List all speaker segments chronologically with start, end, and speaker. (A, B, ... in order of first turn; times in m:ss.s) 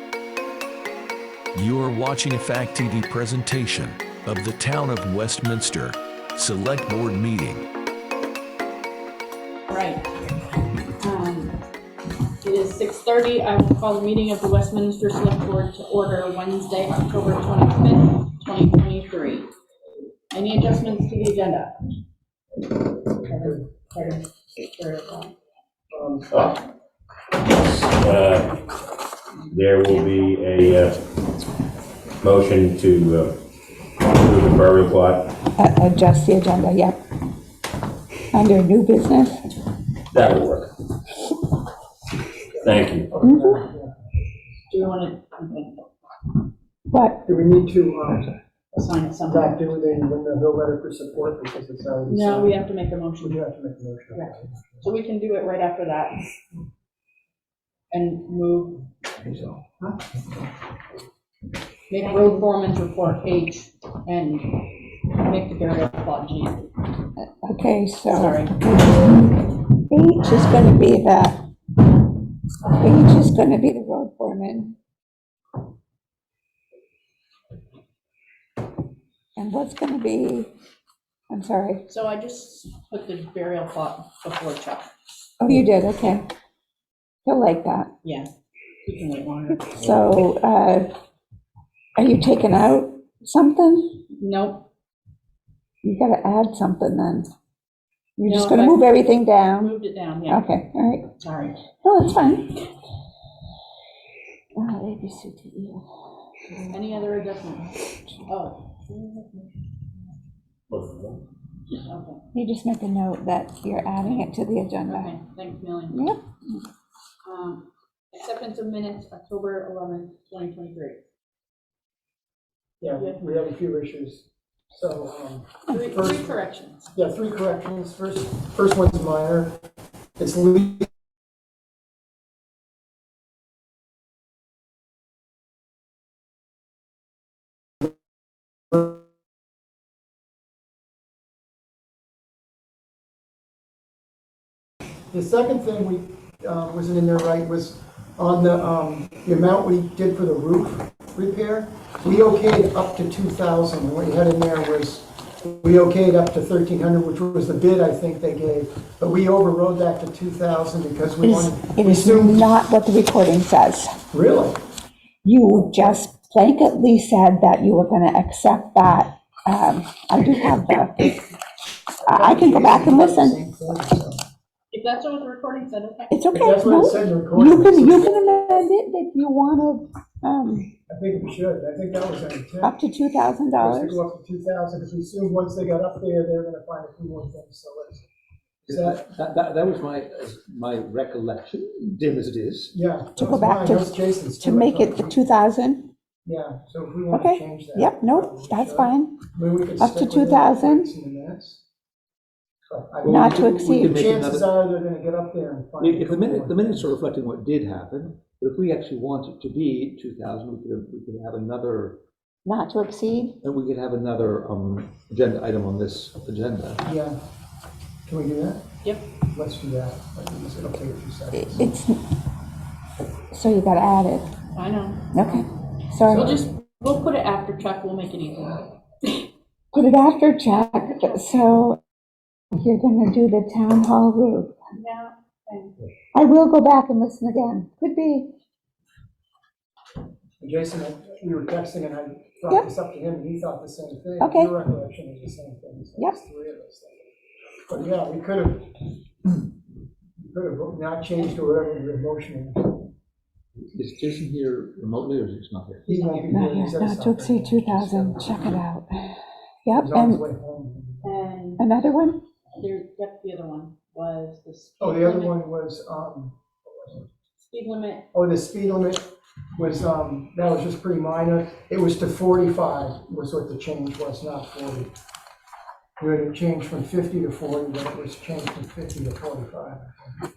0:01.6-0:07.6 A
0:09.7-0:10.0 B
0:11.0-0:11.6 B
0:12.4-0:19.5 B
0:20.3-0:21.7 B
0:23.2-0:25.3 B
0:25.9-0:26.6 C
0:27.4-0:28.5 D
0:29.5-0:31.0 D
0:32.2-0:33.4 D
0:34.0-0:35.3 D
0:35.6-0:37.0 E
0:38.3-0:39.4 E
0:40.1-0:40.7 D
0:42.5-0:43.9 C
0:42.6-0:43.1 D
0:43.2-0:43.6 E
0:44.7-0:45.9 B
0:46.9-0:47.2 E
0:47.2-0:48.3 C
0:48.7-0:50.0 B
0:49.3-0:52.6 C
0:52.1-0:53.4 B
0:53.2-0:54.8 C
0:54.2-0:56.2 B
0:57.9-0:58.8 B
0:59.2-0:59.6 F
1:01.9-1:04.6 B
1:05.1-1:06.6 B
1:07.2-1:11.4 E
1:08.1-1:08.6 B
1:12.7-1:14.7 E
1:19.4-1:20.5 E
1:21.3-1:21.8 E
1:21.9-1:24.9 B
1:25.4-1:26.2 E
1:27.2-1:27.9 E
1:28.0-1:28.3 B
1:28.8-1:29.7 B
1:29.5-1:30.9 E
1:32.0-1:34.0 E
1:34.2-1:34.6 B
1:35.8-1:37.3 E
1:38.2-1:39.8 E
1:38.3-1:39.0 B
1:39.6-1:40.4 B
1:40.3-1:41.1 E
1:41.2-1:41.6 B
1:41.8-1:42.5 E
1:44.6-1:45.8 E
1:46.7-1:47.7 B
1:48.3-1:49.8 B
1:50.7-1:51.2 D
1:51.7-1:52.2 B
1:52.3-1:55.2 E
1:54.0-1:54.3 B
1:54.9-1:56.1 B
1:55.9-1:56.2 E
1:57.2-2:01.0 B
2:02.8-2:06.4 C
2:02.9-2:03.2 B
2:05.7-2:06.9 B
2:06.9-2:09.6 C
2:10.2-2:10.9 C
2:25.1-2:42.6 C
2:41.2-2:44.0 E
2:44.1-2:44.6 C
2:45.2-2:51.2 E
2:45.5-2:46.0 C
2:52.1-2:53.4 E
2:52.1-2:54.2 C
2:54.7-2:56.2 B
2:56.1-3:00.7 E
2:56.3-2:58.2 C
3:00.9-3:02.8 C
3:02.6-3:04.0 E
3:03.6-3:08.1 C
3:08.6-3:09.0 C
3:08.7-3:12.7 F
3:12.7-3:15.2 C
3:13.2-3:15.9 E
3:16.2-3:21.6 C
3:17.1-3:20.9 E
3:22.7-3:26.7 C
3:23.0-3:24.6 F
3:23.0-3:24.0 E
3:25.8-3:32.0 F
3:32.4-3:33.4 E
3:33.4-3:36.8 F
3:36.8-3:37.2 C
3:38.1-3:38.6 C
3:39.3-3:41.7 C
3:41.4-3:42.0 E
3:43.3-3:44.3 E
3:44.5-3:45.4 B
3:45.1-3:46.4 E
3:46.1-3:48.7 B
3:46.1-3:46.4 C
3:49.7-3:51.8 E
3:50.5-3:51.3 B
3:52.6-3:54.5 E
3:54.8-3:55.8 B
3:56.1-3:58.3 E
4:00.4-4:07.0 C
4:04.2-4:04.5 E
4:07.7-4:08.7 C
4:10.2-4:12.8 C
4:13.8-4:15.9 F
4:15.9-4:18.6 C
4:15.9-4:16.3 B
4:16.3-4:20.2 E
4:19.7-4:21.4 C
4:21.0-4:21.6 B
4:21.6-4:22.2 E
4:22.6-4:25.4 B
4:24.8-4:27.0 C
4:27.4-4:28.1 B
4:28.1-4:29.0 C
4:29.6-4:34.9 C
4:36.0-4:40.1 C